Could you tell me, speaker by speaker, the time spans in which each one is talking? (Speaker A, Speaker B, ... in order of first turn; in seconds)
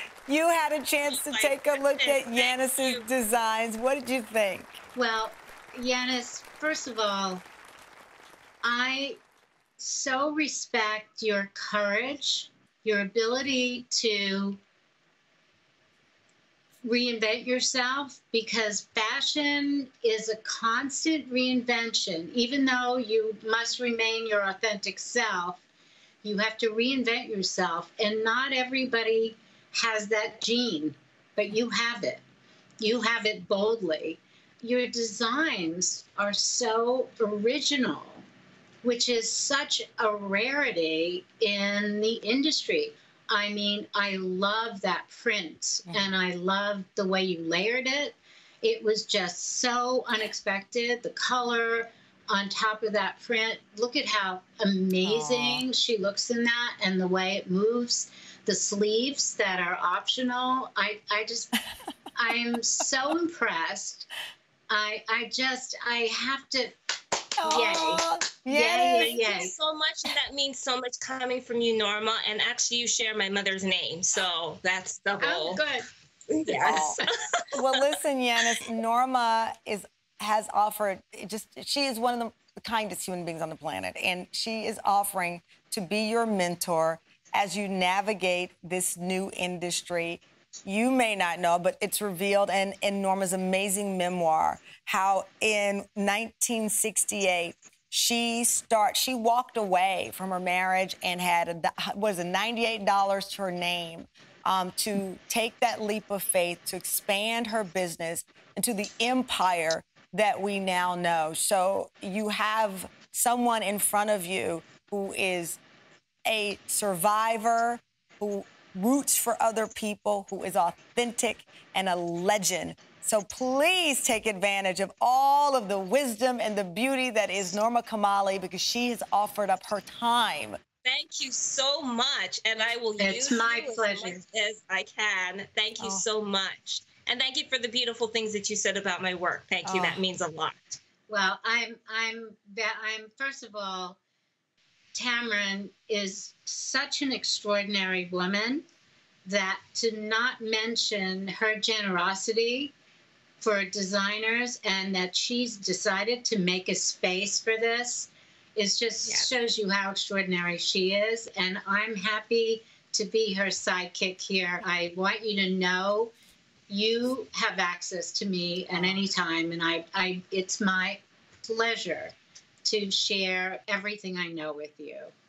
Speaker A: 0.3-4.8, 55.0-55.6, 67.4-69.2, 76.6-77.0, 77.5-115.6, 116.3-130.6, 135.8-136.1, 139.6-140.0, 168.7-169.0
Speaker B: 1.0-3.0, 68.7-75.7, 76.3-77.0, 130.8-140.8, 159.0-159.3
Speaker C: 5.0-7.4, 8.6-9.2, 9.8-14.6, 16.8-25.6, 26.2-32.2, 32.8-38.2, 38.8-61.5, 62.2-64.1, 64.7-66.8, 67.4-69.5, 75.2-75.9, 76.5-77.0, 133.0-134.2, 141.1-144.0, 144.9-148.6, 149.2-152.7, 153.4-166.1, 166.7-172.1, 172.6-175.1